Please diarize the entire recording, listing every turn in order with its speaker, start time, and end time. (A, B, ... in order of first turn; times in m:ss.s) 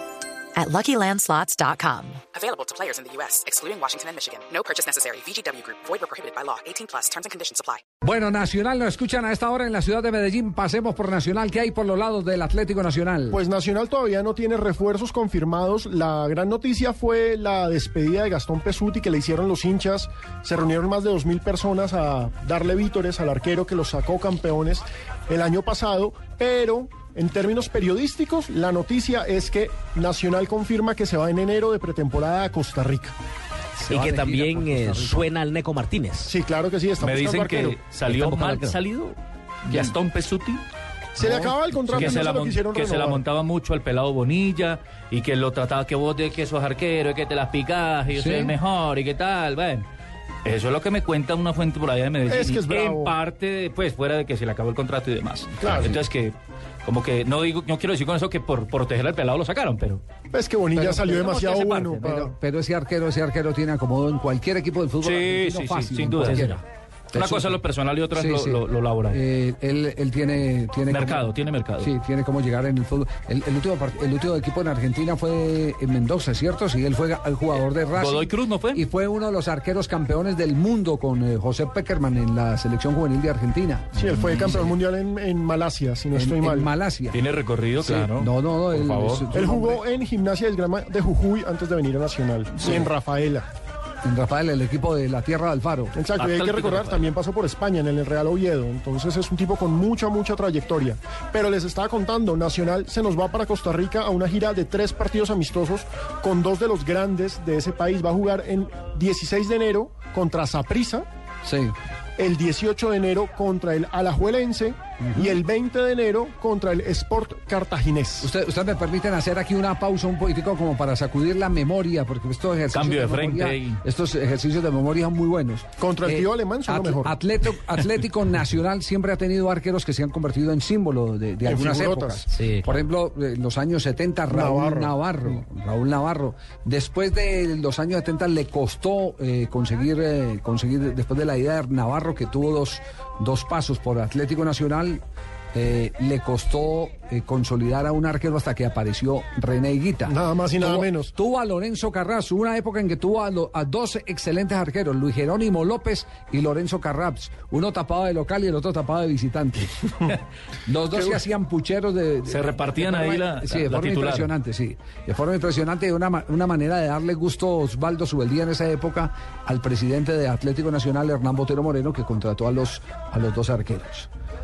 0:00.5-0:07.8 A
0:08.0-0:13.4 B
0:13.3-0:33.1 C
0:33.8-0:35.3 B
0:33.8-0:36.4 D
0:36.2-0:37.8 C
0:37.0-0:40.6 E
0:38.0-0:38.8 D
0:41.2-0:43.2 C
0:41.2-0:42.2 B
0:41.9-0:49.9 E
0:48.1-0:48.5 B
0:50.4-1:00.0 E
0:52.2-0:53.1 C
0:55.6-0:56.0 C
1:00.3-1:02.3 C
1:00.7-1:06.6 B
1:01.3-1:02.1 E
1:05.0-1:06.5 E
1:06.2-1:06.6 D
1:07.1-1:09.2 E
1:07.1-1:24.0 B
1:10.9-1:11.9 E
1:17.6-1:18.8 E
1:24.0-1:24.7 E
1:24.0-1:26.7 C
1:26.1-1:27.2 B
1:27.1-1:29.3 E
1:27.8-1:29.8 B
1:29.3-1:33.5 C
1:32.6-1:32.9 B
1:34.0-1:36.0 B
1:35.9-1:51.0 C
1:36.2-1:37.1 E
1:51.4-1:51.7 B
1:52.2-1:58.3 C
1:55.0-1:55.4 B
1:58.2-2:25.0 B
2:02.7-2:03.8 E
2:05.8-2:07.1 C
2:11.4-2:12.3 C
2:12.3-2:12.8 D
2:14.3-2:15.0 C
2:25.5-2:39.9 B
2:30.1-2:31.1 C
2:40.6-2:54.1 B
2:42.2-2:44.3 E